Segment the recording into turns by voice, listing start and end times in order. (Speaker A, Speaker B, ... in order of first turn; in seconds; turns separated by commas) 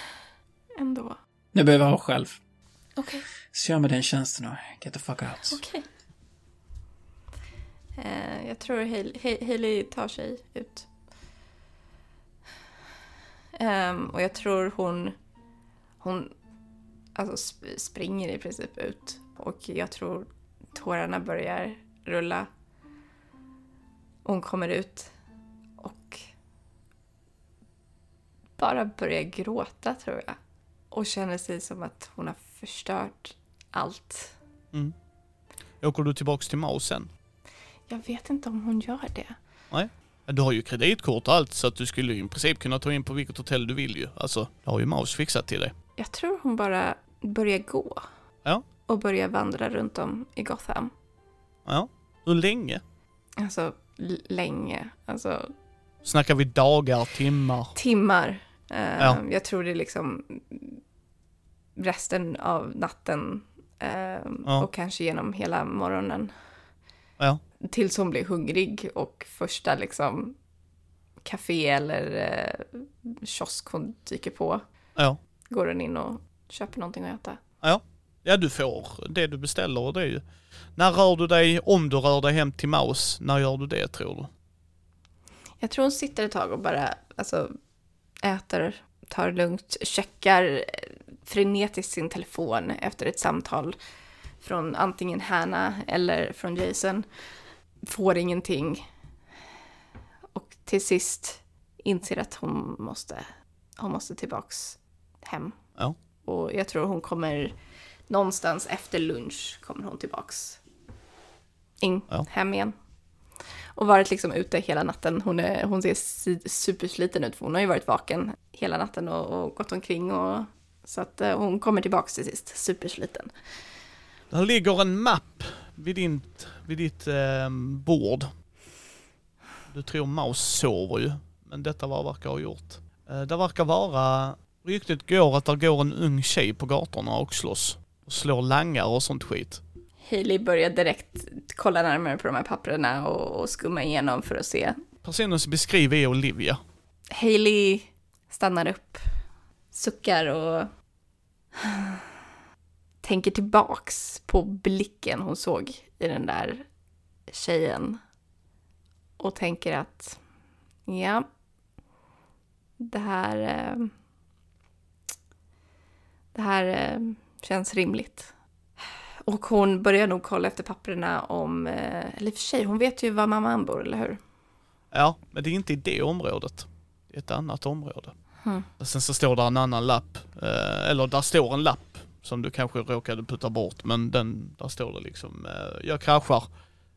Speaker A: 0.7-1.2, Speaker B: 1.5-2.4, Speaker A: 3.0-3.2, Speaker B: 3.5-5.6, Speaker A: 5.5-5.8, Speaker A: 8.0-10.9, Speaker A: 13.5-15.1, Speaker A: 16.0-16.3, Speaker A: 17.1-22.5, Speaker A: 24.2-25.1, Speaker A: 25.8-26.2, Speaker A: 28.6-30.4, Speaker A: 30.9-34.4, Speaker C: 35.8-37.1, Speaker A: 37.9-39.4, Speaker C: 39.7-45.7, Speaker A: 46.0-48.0, Speaker A: 48.9-50.9, Speaker C: 51.6-52.8, Speaker A: 53.4-55.5, Speaker C: 56.0-57.7, Speaker A: 57.7-60.8, Speaker A: 61.8-66.3, Speaker A: 67.6-70.3, Speaker A: 71.2-74.6, Speaker A: 75.5-77.4, Speaker C: 77.6-80.2, Speaker C: 80.7-84.3, Speaker A: 85.6-87.5, Speaker A: 88.2-93.8, Speaker A: 94.4-97.3, Speaker A: 97.8-98.9, Speaker A: 100.3-103.3, Speaker A: 103.8-105.6, Speaker A: 106.2-107.5, Speaker A: 108.1-110.6, Speaker A: 111.8-112.7, Speaker A: 113.7-123.3, Speaker C: 124.3-128.3, Speaker C: 129.7-139.6, Speaker A: 140.0-144.8, Speaker C: 145.0-146.6, Speaker A: 147.1-149.1, Speaker A: 149.7-150.7, Speaker A: 151.6-152.0, Speaker A: 153.0-156.6, Speaker A: 157.3-158.0, Speaker A: 159.2-160.2, Speaker A: 160.8-161.2, Speaker A: 162.8-163.9, Speaker A: 166.3-174.2, Speaker C: 174.9-186.4